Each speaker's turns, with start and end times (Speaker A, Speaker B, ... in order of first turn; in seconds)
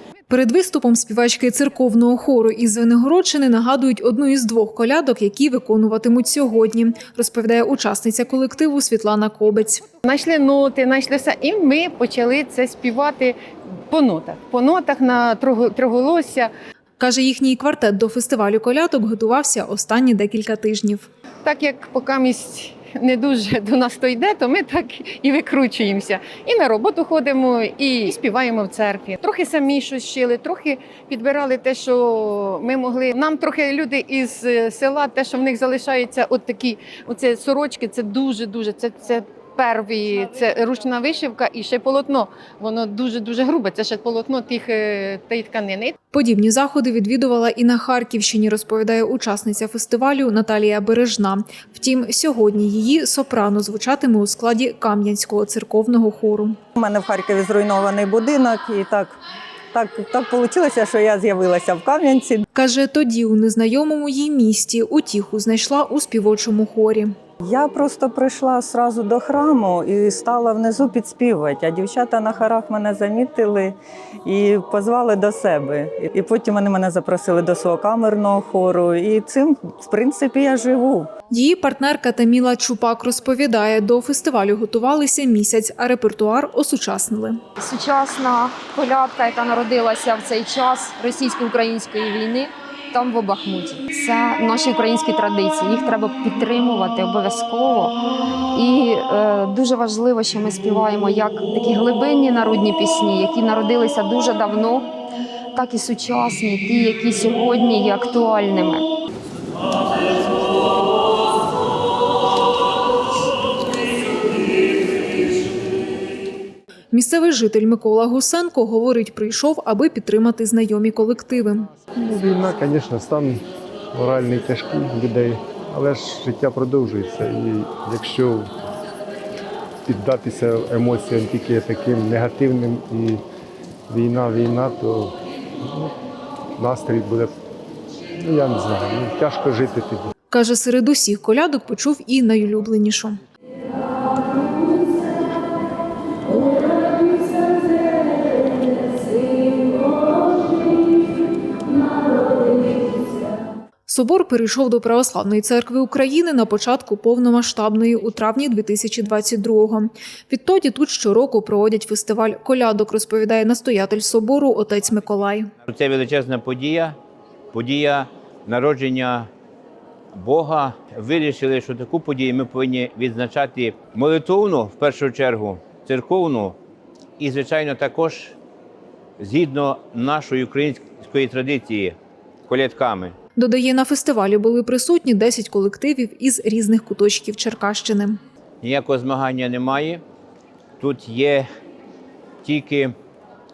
Speaker A: 0.3-9.9, 17.0-21.1, 46.1-56.6, 62.5-67.1, 81.3-87.4, 116.9-121.7, 140.3-143.2, 153.9-165.5, 183.4-188.2
Speaker B: 10.0-13.4, 13.9-16.5, 21.4-46.0
Speaker C: 56.8-59.2, 59.7-62.4, 67.4-81.1
Speaker D: 87.6-98.0, 98.5-104.9, 105.5-108.9
Speaker E: 122.0-123.4, 123.9-128.5, 129.9-133.2, 133.9-135.9, 136.6-137.3, 138.2-140.1
Speaker F: 165.7-167.0, 167.5-169.3, 170.1-176.6, 177.2-178.4, 179.2-181.9, 182.5-183.1, 188.6-190.0, 190.8-191.5, 192.4-192.9